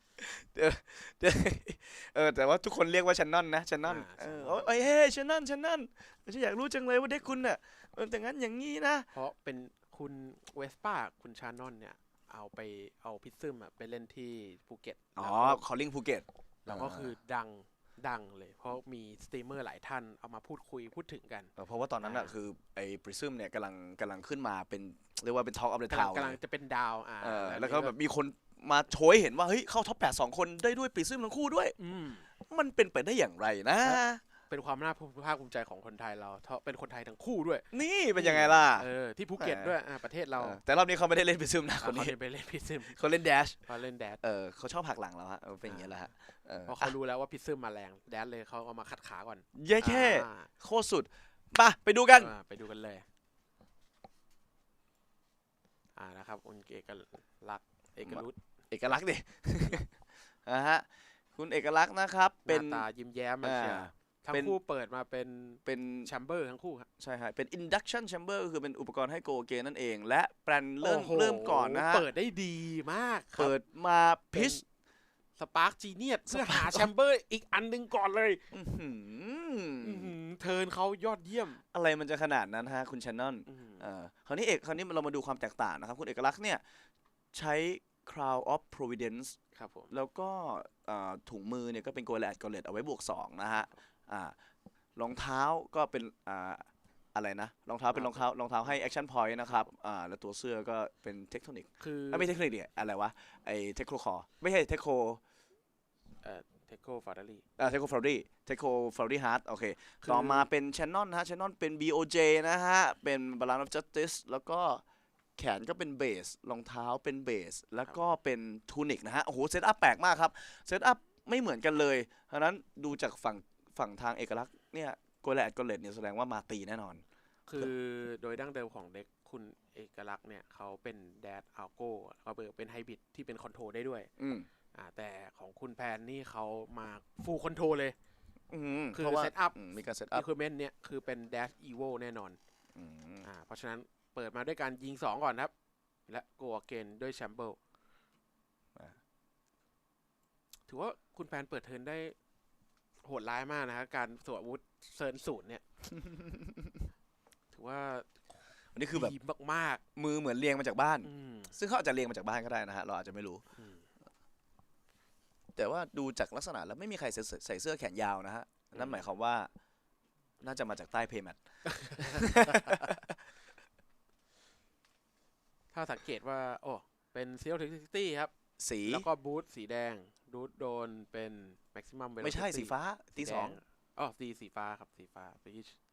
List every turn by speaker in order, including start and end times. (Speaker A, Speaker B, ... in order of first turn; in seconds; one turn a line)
Speaker A: 0.2-9.1
Speaker B: 3.9-4.7
Speaker B: 9.1-15.6
Speaker A: 15.2-17.1
Speaker B: 16.6-22.4
Speaker A: 21.6-26.4
Speaker B: 25.9-28.0
Speaker A: 27.2-31.8
Speaker B: 31.8-32.3
Speaker A: 32.5-34.2
Speaker B: 33.8-40.6
Speaker A: 37.7-39.7
Speaker A: 40.4-42.1
Speaker B: 41.8-43.0
Speaker A: 42.9-43.6
Speaker B: 43.6-44.2
Speaker A: 44.2-46.9
Speaker B: 45.6-45.9
Speaker B: 46.7-50.5
Speaker A: 49.5-52.3
Speaker B: 52.2-53.1
Speaker B: 56.0-58.4
Speaker A: 58.0-59.9
Speaker A: 60.4-62.9
Speaker B: 62.5-66.9
Speaker A: 63.4-64.6
Speaker A: 65.7-66.1
Speaker A: 67.0-72.1
Speaker B: 70.8-73.5
Speaker A: 73.4-74.6
Speaker B: 74.3-74.6
Speaker B: 75.4-78.5
Speaker A: 76.3-76.9
Speaker A: 78.5-80.1
Speaker B: 79.8-81.6
Speaker A: 81.7-86.6
Speaker B: 83.5-83.9
Speaker A: 87.3-89.4
Speaker B: 89.5-89.9
Speaker A: 89.9-94.3
Speaker A: 95.0-105.2
Speaker B: 97.9-98.8
Speaker B: 101.8-102.3
Speaker B: 106.2-107.5
Speaker A: 107.6-114.8
Speaker B: 110.0-110.5
Speaker A: 115.4-127.0
Speaker B: 127.5-134.1
Speaker A: 134.2-134.5
Speaker B: 134.7-138.0
Speaker A: 138.5-140.2
Speaker B: 138.9-139.6
Speaker B: 140.1-142.4
Speaker A: 142.8-143.3
Speaker B: 143.2-145.5
Speaker B: 146.1-147.6
Speaker B: 150.7-152.2
Speaker B: 153.0-155.6
Speaker A: 155.9-156.8
Speaker B: 157.5-158.2
Speaker A: 158.7-159.1
Speaker B: 158.9-159.8
Speaker A: 160.0-163.4
Speaker B: 161.0-161.6
Speaker B: 163.6-163.9
Speaker A: 165.6-169.5
Speaker B: 168.8-169.1
Speaker A: 170.4-171.4
Speaker B: 171.7-173.0
Speaker A: 171.9-173.2
Speaker B: 175.7-178.3
Speaker A: 178.6-179.1
Speaker B: 178.9-185.8
Speaker A: 182.2-183.6